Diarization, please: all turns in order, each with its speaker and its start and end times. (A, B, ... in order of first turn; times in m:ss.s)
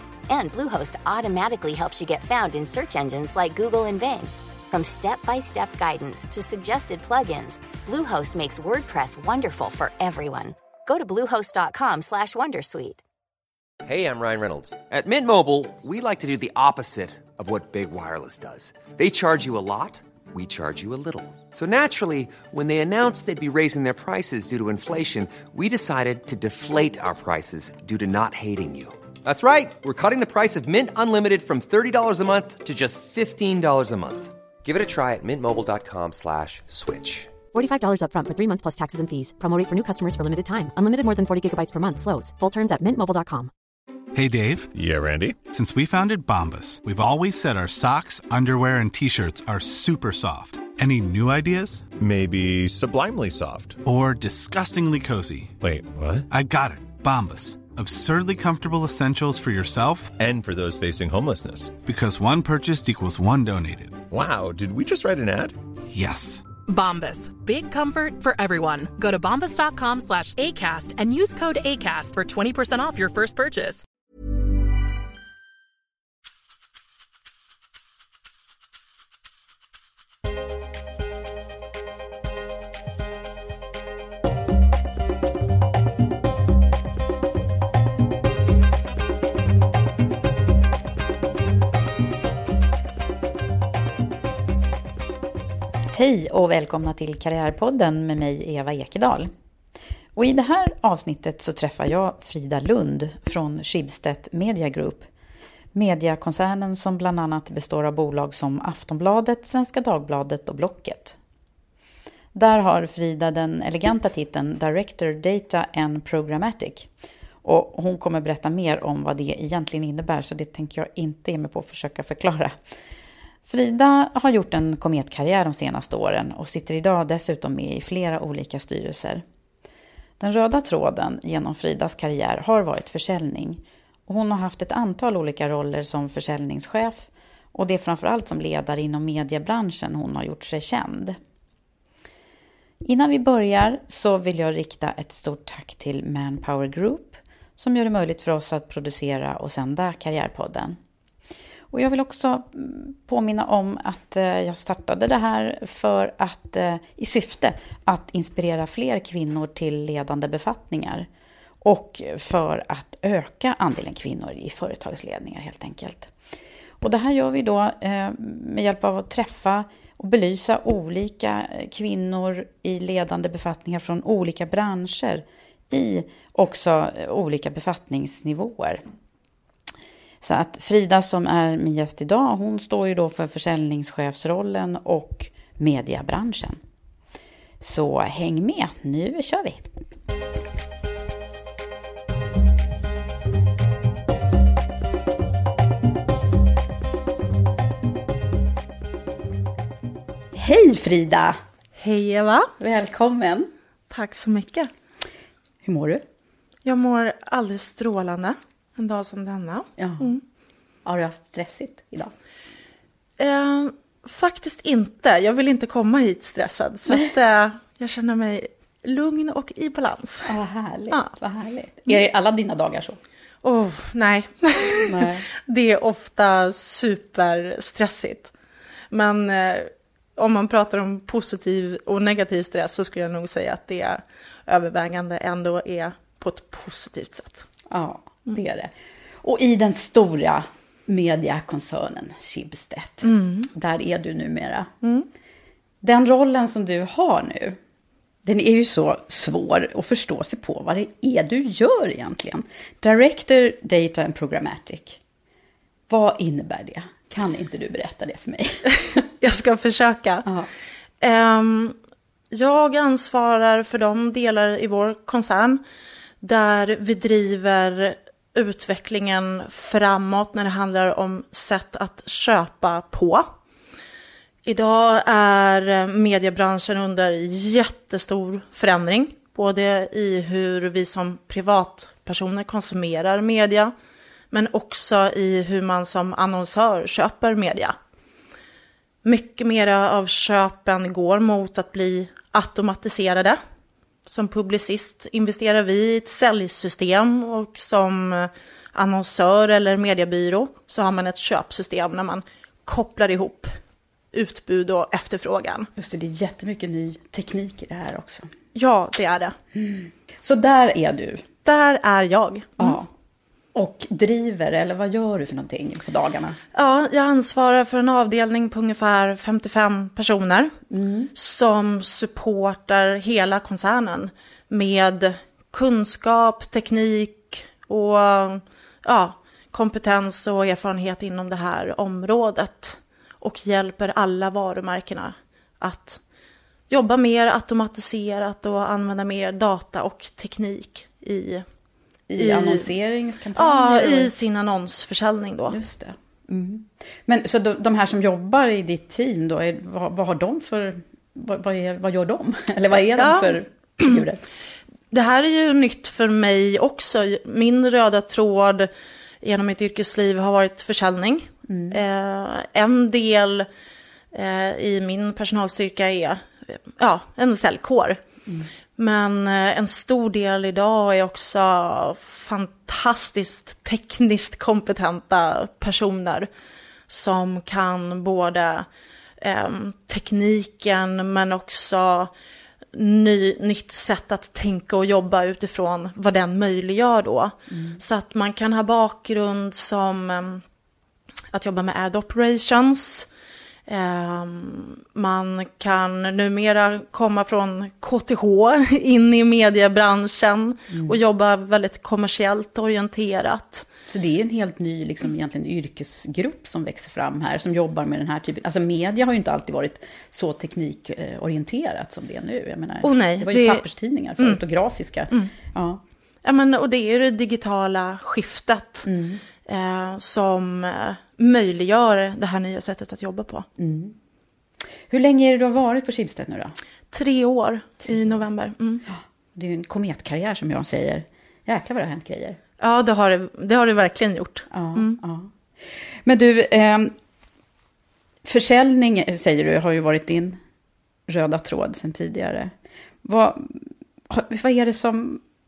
0:00.3-0:13.0 A
0:13.8-0:37.3 B
0:37.5-0:43.5 C
0:44.1-0:44.7 D
0:44.7-0:45.4 E
0:45.5-0:51.8 D
0:52.0-0:53.8 E
0:53.8-0:55.5 D
0:55.6-0:56.2 E
0:56.3-1:00.2 D
1:00.2-1:01.7 E
1:01.8-1:04.0 D
1:04.1-1:05.6 E
1:05.9-1:06.4 D
1:06.7-1:13.8 F
1:35.9-1:39.3 G
1:40.1-1:45.1 G
1:45.7-1:51.2 G
1:52.3-1:56.9 G
1:57.4-2:02.5 G
2:03.4-2:09.2 G
2:10.2-2:21.2 G
2:22.8-2:30.8 G
2:31.7-2:41.1 G
2:41.6-2:46.1 G
2:46.8-2:58.8 G
3:00.2-3:06.6 G
3:07.6-3:09.7 G
3:20.3-3:21.4 G
3:21.8-3:22.5 H
3:22.6-3:23.5 G
3:23.9-3:24.7 H
3:25.6-3:26.0 G
3:26.6-3:30.2 H
3:29.8-3:30.1 G
3:30.8-3:32.1 G
3:33.2-3:40.3 H
3:40.2-3:43.0 G
3:43.4-3:48.3 H
3:44.9-3:45.3 G
3:48.9-3:57.4 H
3:57.7-4:04.7 G
4:03.0-4:03.5 H
4:04.8-4:05.1 H
4:05.8-4:07.6 G
4:08.2-4:15.0 G
4:15.9-4:18.7 G
4:19.0-4:20.2 H
4:21.0-4:21.8 H
4:22.3-4:25.6 H
4:26.2-4:33.3 H
4:34.4-4:43.7 H
4:44.3-4:47.8 H
4:49.0-4:53.4 H
4:54.0-5:03.5 H
5:04.1-5:05.7 H
5:05.8-5:08.3 G
5:08.5-5:09.4 H
5:09.5-5:11.2 G
5:11.4-5:12.8 H
5:12.6-5:12.9 G
5:13.5-5:16.4 G
5:16.5-5:20.5 H
5:20.7-5:21.1 G
5:21.1-5:36.0 H
5:36.7-5:41.4 H
5:42.1-5:44.1 G
5:42.2-5:42.7 H
5:43.3-5:45.6 H
5:45.5-5:54.2 G
5:53.0-5:54.0 H
5:54.9-6:03.5 H
6:01.5-6:01.8 G
6:04.1-6:08.0 H
6:08.8-6:16.3 H
6:16.9-6:18.7 H
6:19.2-6:22.1 H
6:22.7-6:30.4 H
6:27.5-6:27.8 G
6:31.3-6:33.1 H
6:33.6-6:43.7 H
6:40.7-6:41.0 G
6:43.9-6:55.8 G
6:52.8-6:53.6 H
6:56.2-6:58.9 H
6:58.8-6:59.2 G
6:59.4-7:03.5 H
7:03.6-7:03.9 G
7:04.9-7:06.6 G
7:06.9-7:08.8 H
7:07.8-7:08.2 G
7:08.9-7:12.4 G
7:12.6-7:15.0 H
7:14.5-7:16.9 G
7:18.2-7:20.4 G
7:21.1-7:22.5 G
7:23.0-7:25.2 G